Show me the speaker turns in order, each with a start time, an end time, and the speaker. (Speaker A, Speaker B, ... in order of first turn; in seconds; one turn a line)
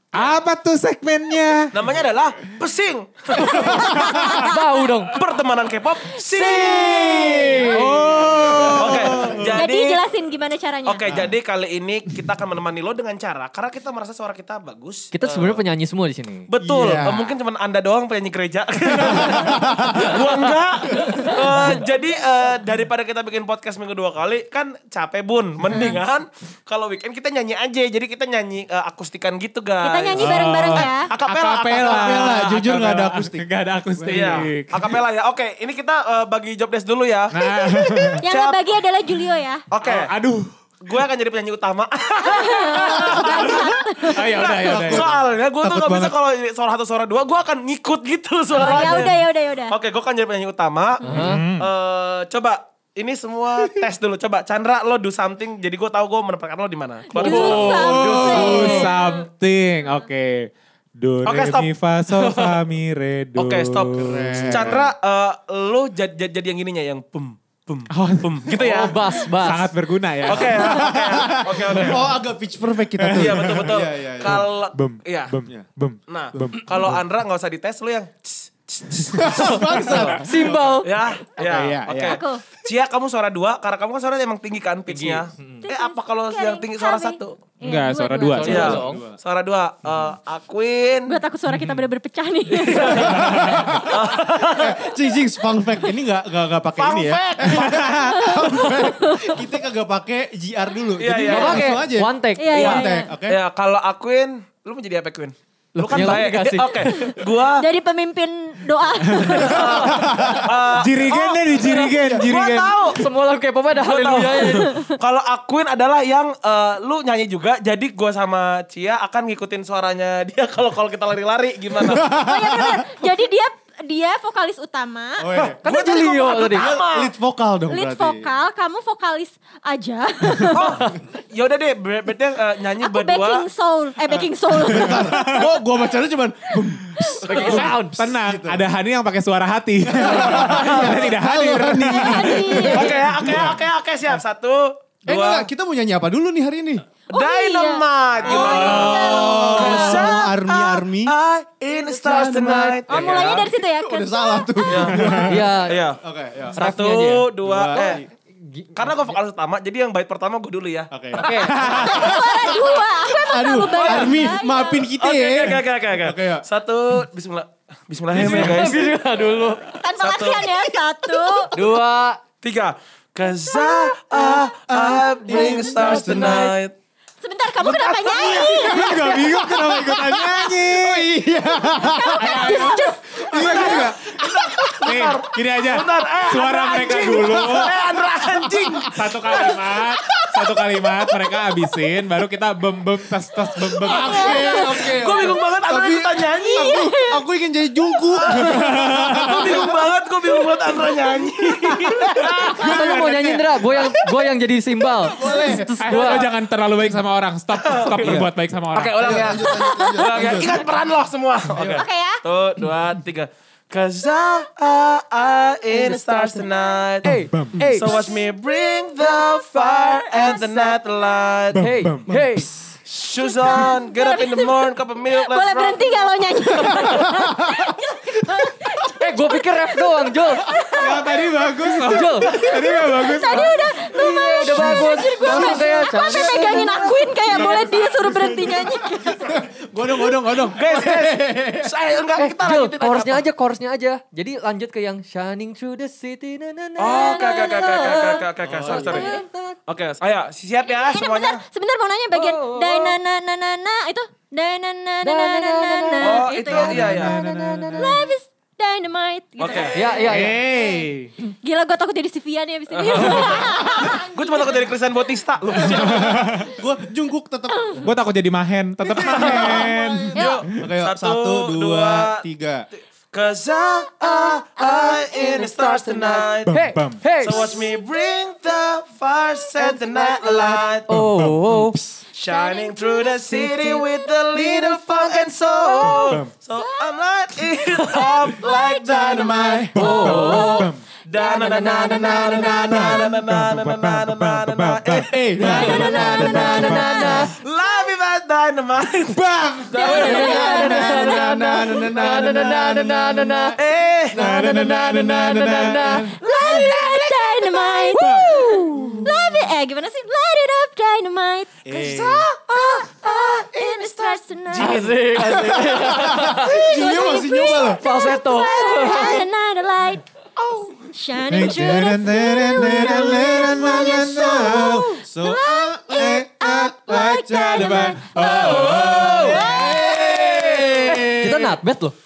Speaker A: 0.1-1.7
Speaker B: 1.7-4.1
Speaker C: 3.5-4.9
Speaker A: 3.8-4.3
Speaker D: 4.3-5.2
Speaker B: 5.1-7.8
Speaker C: 6.4-7.7
Speaker D: 6.5-8.2
Speaker A: 7.7-9.4
Speaker E: 8.4-9.5
Speaker B: 8.5-10.0
Speaker C: 9.5-11.1
Speaker B: 10.8-15.6
Speaker D: 15.1-16.5
Speaker B: 16.5-32.3
Speaker E: 16.6-17.3
Speaker E: 18.9-20.2
Speaker E: 20.9-21.2
Speaker C: 29.8-31.1
Speaker A: 30.1-34.9
Speaker E: 31.8-34.5
Speaker B: 34.0-38.7
Speaker A: 37.3-38.2
Speaker C: 38.2-39.6
Speaker B: 39.7-40.1
Speaker A: 39.8-40.5
Speaker B: 40.8-58.8
Speaker C: 42.2-44.7
Speaker A: 44.1-46.1
Speaker C: 48.5-49.8
Speaker D: 51.0-51.4
Speaker A: 51.2-51.7
Speaker C: 57.1-59.2
Speaker A: 57.2-64.8
Speaker B: 61.2-61.7
Speaker B: 63.4-69.3
Speaker E: 64.0-64.9
Speaker A: 67.9-68.8
Speaker D: 68.5-69.7
Speaker A: 69.3-70.9
Speaker B: 70.2-72.1
Speaker E: 70.5-74.4
Speaker A: 71.7-72.0
Speaker A: 73.0-77.0
Speaker B: 73.1-75.3
Speaker B: 76.1-80.2
Speaker E: 79.1-80.8
Speaker D: 79.3-81.4
Speaker B: 80.8-87.4
Speaker A: 81.4-82.2
Speaker C: 82.0-82.4
Speaker D: 84.9-85.6
Speaker C: 85.6-88.7
Speaker A: 87.6-88.9
Speaker D: 88.3-89.0
Speaker B: 88.4-91.2
Speaker E: 88.7-89.1
Speaker C: 91.1-93.2
Speaker A: 91.5-91.8
Speaker B: 92.5-94.9
Speaker E: 93.0-103.4
Speaker A: 93.1-93.8
Speaker B: 96.8-98.4
Speaker C: 98.2-99.4
Speaker B: 101.0-101.7
Speaker D: 101.3-102.8
Speaker C: 102.4-103.1
Speaker B: 102.5-107.6
Speaker D: 105.8-106.8
Speaker C: 106.9-109.9
Speaker A: 109.0-109.6
Speaker B: 109.4-113.0
Speaker E: 109.9-110.4
Speaker A: 110.8-112.8
Speaker D: 111.6-112.1
Speaker D: 112.8-114.7
Speaker B: 113.7-122.1
Speaker C: 114.6-114.9
Speaker E: 121.8-122.8
Speaker C: 122.0-126.5
Speaker E: 125.2-125.7
Speaker B: 125.3-127.1
Speaker D: 125.7-126.7
Speaker E: 126.3-128.3
Speaker C: 127.7-130.8
Speaker B: 130.5-133.5
Speaker C: 132.8-135.2
Speaker E: 134.5-138.6
Speaker A: 134.7-135.5
Speaker C: 137.0-137.6
Speaker D: 137.2-138.1
Speaker B: 137.3-137.7
Speaker A: 137.9-142.8
Speaker E: 139.9-143.6
Speaker B: 140.4-140.9
Speaker C: 142.0-143.0
Speaker B: 142.7-145.5
Speaker E: 145.1-146.8
Speaker C: 147.1-150.2
Speaker B: 147.1-153.5
Speaker E: 148.2-151.1
Speaker A: 148.3-149.4
Speaker E: 151.9-156.6
Speaker C: 152.9-155.3
Speaker B: 154.6-156.0
Speaker D: 155.2-155.8
Speaker B: 156.5-158.0
Speaker D: 156.5-159.1
Speaker E: 157.4-158.0
Speaker B: 158.7-162.2
Speaker E: 160.9-166.4
Speaker D: 161.1-162.1
Speaker C: 161.6-164.9
Speaker B: 163.7-168.9
Speaker D: 168.1-169.8
Speaker E: 168.2-168.7
Speaker C: 169.8-171.5
Speaker B: 170.0-170.6
Speaker D: 171.5-172.2
Speaker B: 172.4-176.7
Speaker E: 174.1-176.5
Speaker C: 175.3-175.7
Speaker D: 175.7-176.5
Speaker C: 177.2-179.3
Speaker B: 177.6-178.8
Speaker A: 178.5-181.1
Speaker E: 178.8-184.5
Speaker C: 181.7-183.8
Speaker A: 182.2-187.7
Speaker B: 183.3-189.6
Speaker E: 187.2-188.8
Speaker A: 188.9-194.4
Speaker E: 193.7-199.7
Speaker B: 194.1-196.8
Speaker C: 196.5-197.2
Speaker B: 198.1-202.9
Speaker A: 198.3-199.5
Speaker E: 201.7-203.9
Speaker D: 202.6-206.3
Speaker E: 205.0-205.7
Speaker A: 205.8-209.2
Speaker B: 207.5-208.2
Speaker E: 208.0-208.3
Speaker B: 208.7-217.1
Speaker E: 209.0-210.6
Speaker C: 209.4-210.3
Speaker E: 211.5-211.8
Speaker C: 211.8-212.2
Speaker D: 215.7-216.4
Speaker D: 217.0-218.0
Speaker A: 217.3-217.6
Speaker B: 217.7-221.7
Speaker C: 220.2-220.5
Speaker D: 221.5-222.7
Speaker A: 221.6-222.1
Speaker B: 222.8-226.1
Speaker C: 223.2-231.2
Speaker E: 226.8-227.7
Speaker D: 229.0-230.6
Speaker A: 230.7-233.6
Speaker D: 231.8-232.5
Speaker C: 232.2-239.3
Speaker D: 233.2-236.9
Speaker E: 234.6-241.7
Speaker B: 236.3-237.4
Speaker B: 240.4-243.2
Speaker D: 242.2-249.6
Speaker B: 246.8-249.1
Speaker C: 247.0-248.1
Speaker E: 248.4-249.0
Speaker C: 248.9-249.2
Speaker B: 249.7-251.4
Speaker C: 250.7-257.0
Speaker D: 252.1-253.0
Speaker D: 255.0-258.0
Speaker B: 256.0-257.2
Speaker A: 256.5-257.8
Speaker C: 257.7-264.6
Speaker B: 259.4-260.1
Speaker D: 259.7-260.4
Speaker A: 260.1-261.1
Speaker B: 262.7-266.3
Speaker A: 265.7-266.5
Speaker E: 265.7-267.8
Speaker A: 267.8-270.3
Speaker E: 268.9-272.6
Speaker B: 268.9-272.2
Speaker C: 270.1-270.4
Speaker B: 273.1-276.6
Speaker D: 275.3-277.5
Speaker A: 276.4-277.1
Speaker B: 277.2-281.0
Speaker C: 277.3-277.8
Speaker D: 279.7-281.9
Speaker B: 282.1-301.1
Speaker C: 282.2-283.3
Speaker D: 283.3-283.8
Speaker D: 284.4-286.1
Speaker C: 286.6-286.9
Speaker D: 287.7-288.1
Speaker E: 288.5-290.0
Speaker A: 289.7-290.8
Speaker D: 289.8-290.6
Speaker C: 290.3-290.6
Speaker D: 291.1-292.7
Speaker A: 292.6-297.0
Speaker E: 295.1-296.5
Speaker C: 295.4-297.3
Speaker D: 295.4-297.3
Speaker A: 299.1-300.2
Speaker C: 299.7-301.3
Speaker D: 299.8-303.6
Speaker E: 300.1-303.6
Speaker B: 303.6-304.2
Speaker A: 304.1-306.1
Speaker E: 304.1-304.5
Speaker D: 304.2-306.1
Speaker E: 305.7-306.7
Speaker C: 306.1-311.7
Speaker B: 306.5-307.8
Speaker E: 307.9-309.1
Speaker D: 308.5-309.1
Speaker E: 311.6-312.3
Speaker B: 311.7-314.9
Speaker C: 312.6-314.9
Speaker D: 314.5-316.6
Speaker E: 315.2-317.8
Speaker C: 316.3-320.0
Speaker D: 317.7-319.2
Speaker B: 318.4-319.2
Speaker B: 320.4-320.8
Speaker C: 320.9-330.1
Speaker A: 321.3-324.9
Speaker E: 323.1-323.9
Speaker E: 324.9-328.0
Speaker A: 325.9-329.9
Speaker B: 328.2-331.1
Speaker E: 328.9-331.6
Speaker D: 330.9-331.9